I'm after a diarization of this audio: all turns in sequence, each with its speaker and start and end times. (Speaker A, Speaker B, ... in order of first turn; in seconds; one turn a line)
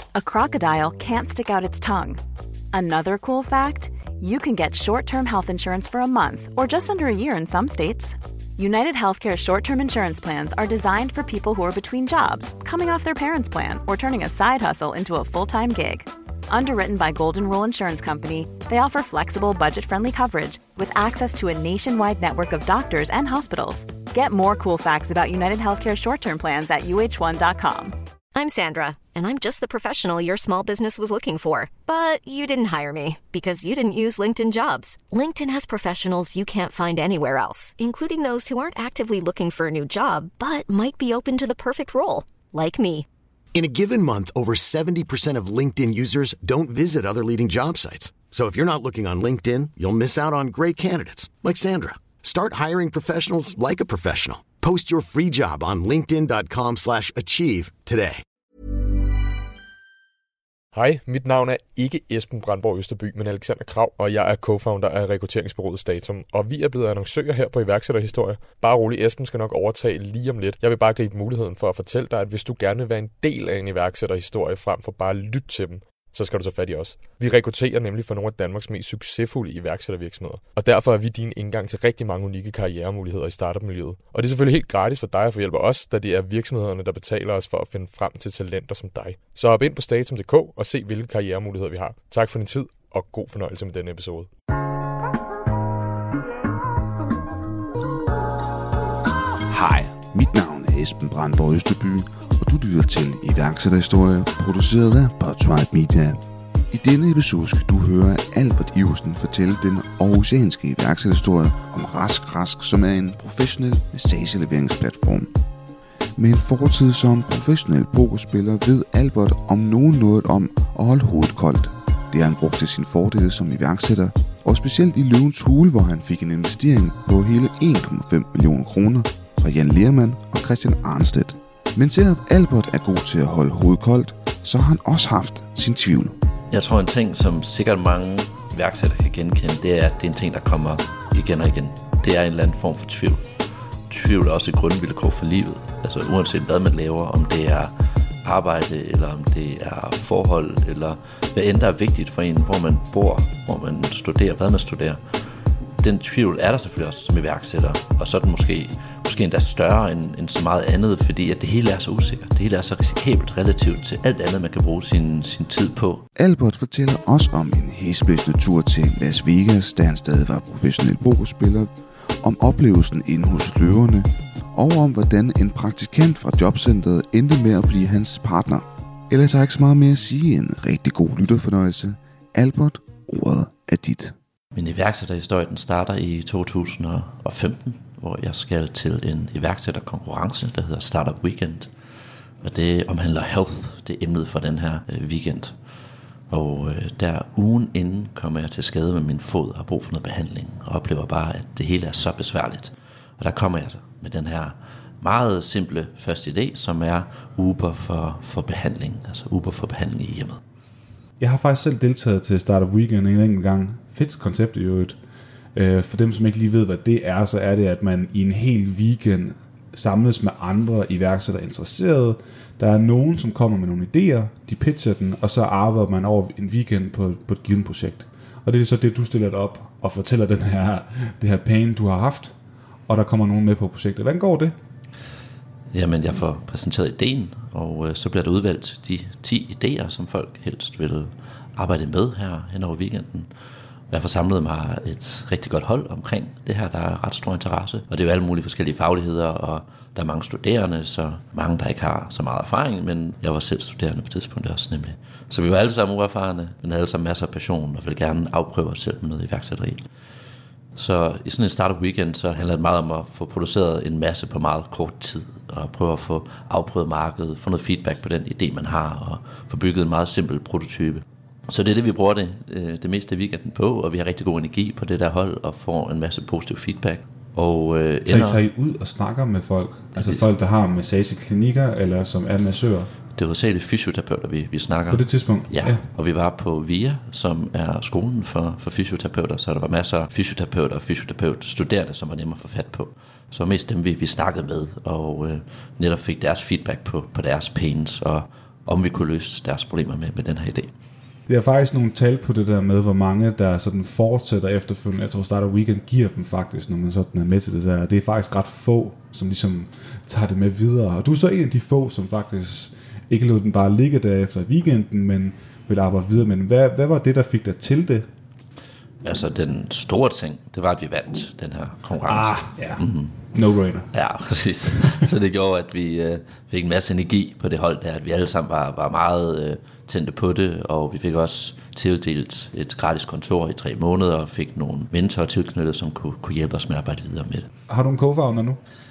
Speaker A: 0.1-2.2
Speaker A: 2.7-28.0
Speaker B: 28.4-43.0
Speaker C: 43.5-58.2
Speaker D: 60.7-94.3
Speaker E: 99.5-115.3
Speaker E: 116.2-136.2
Speaker F: 136.5-143.3
Speaker F: 143.9-147.7
Speaker F: 148.2-155.0
Speaker F: 155.8-166.1
Speaker E: 166.2-171.7
Speaker E: 172.2-184.2
Speaker F: 184.5-191.7
Speaker F: 192.4-195.5
Speaker F: 196.3-210.4
Speaker G: 211.2-215.0
Speaker G: 215.5-232.3
Speaker G: 232.9-234.6
Speaker F: 235.7-243.3
Speaker F: 243.9-259.8
Speaker F: 260.8-278.4
Speaker G: 278.1-282.9
Speaker F: 279.9-280.2
Speaker F: 283.1-300.7
Speaker G: 284.9-285.8
Speaker G: 301.3-318.1
Speaker F: 319.0-323.2
Speaker G: 322.0-323.9
Speaker F: 323.9-337.5
Speaker G: 337.7-338.6